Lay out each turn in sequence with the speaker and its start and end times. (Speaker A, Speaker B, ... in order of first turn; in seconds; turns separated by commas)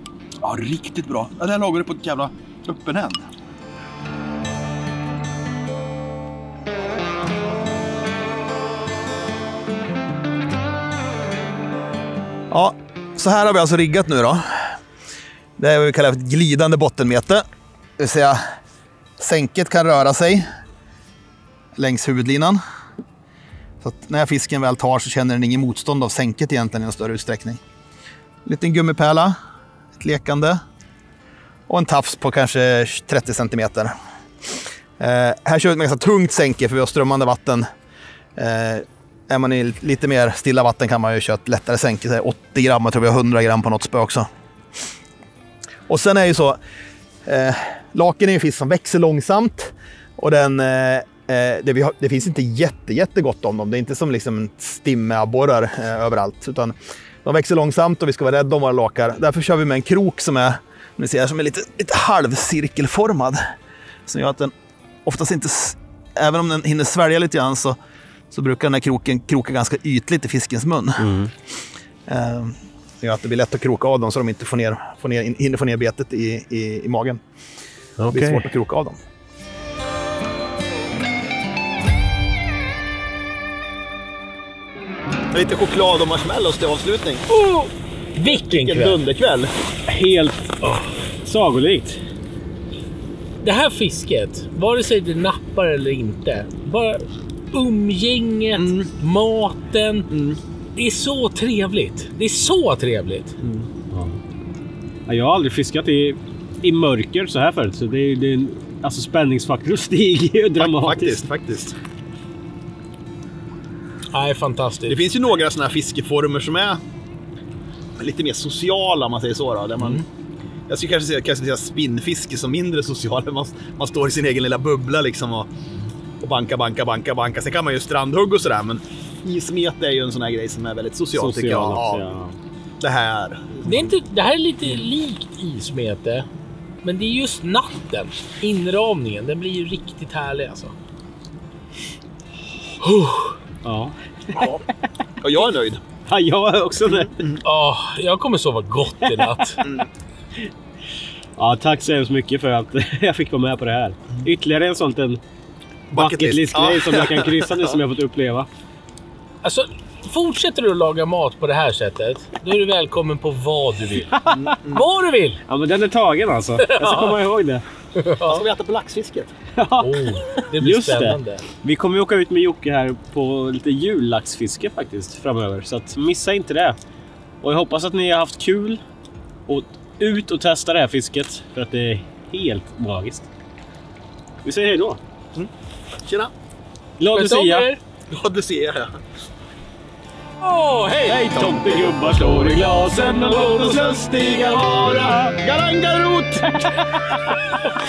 Speaker A: 0.4-3.3, Speaker A: 12.5-14.7, Speaker A: 15.6-17.4, Speaker A: 18.0-18.4, Speaker A: 19.2-20.4, Speaker A: 21.8-22.6, Speaker A: 23.8-27.6, Speaker A: 28.4-29.3, Speaker A: 30.0-30.6, Speaker A: 31.7-33.9, Speaker A: 35.0-37.6, Speaker A: 38.4-44.3, Speaker A: 45.9-46.6, Speaker A: 47.2-63.4, Speaker A: 64.1-64.5, Speaker A: 65.0-67.8, Speaker A: 68.3-71.1, Speaker B: 71.0-71.3, Speaker A: 72.1-77.2, Speaker B: 78.0-78.5, Speaker A: 78.1-79.0, Speaker A: 85.3-87.2, Speaker C: 87.3-89.0, Speaker A: 88.2-89.5, Speaker B: 89.9-92.0, Speaker C: 93.4-100.1, Speaker A: 98.6-98.9, Speaker A: 100.1-100.4, Speaker C: 100.8-103.4, Speaker A: 103.4-103.7, Speaker B: 103.9-104.2, Speaker B: 105.1-111.2, Speaker A: 110.6-111.7, Speaker C: 114.1-115.0, Speaker A: 114.9-116.8, Speaker A: 118.0-120.0, Speaker A: 120.7-125.5, Speaker A: 126.2-132.1, Speaker B: 131.1-132.4, Speaker A: 132.8-133.9, Speaker C: 133.6-136.3, Speaker C: 136.8-140.7, Speaker C: 142.8-143.3, Speaker B: 143.6-144.6, Speaker A: 144.3-144.6, Speaker A: 145.2-145.8, Speaker B: 146.1-147.1, Speaker A: 146.8-147.4, Speaker C: 147.4-149.6, Speaker B: 149.0-149.4, Speaker A: 149.6-149.9, Speaker B: 151.4-155.2, Speaker A: 155.9-157.8, Speaker B: 155.9-158.5, Speaker C: 159.4-165.4, Speaker B: 164.0-164.6, Speaker A: 164.3-164.8, Speaker B: 165.5-167.6, Speaker C: 166.7-167.1, Speaker C: 167.9-168.4, Speaker A: 168.2-169.3, Speaker B: 169.6-176.8, Speaker C: 169.8-171.4, Speaker B: 177.4-178.8, Speaker B: 179.5-183.3, Speaker B: 184.4-185.0, Speaker A: 186.0-186.3, Speaker B: 187.0-187.7, Speaker C: 187.1-187.8, Speaker A: 188.1-189.0, Speaker C: 190.4-191.4, Speaker B: 191.1-195.4, Speaker A: 191.2-191.8, Speaker A: 193.6-194.4, Speaker A: 195.3-197.3, Speaker B: 196.5-197.3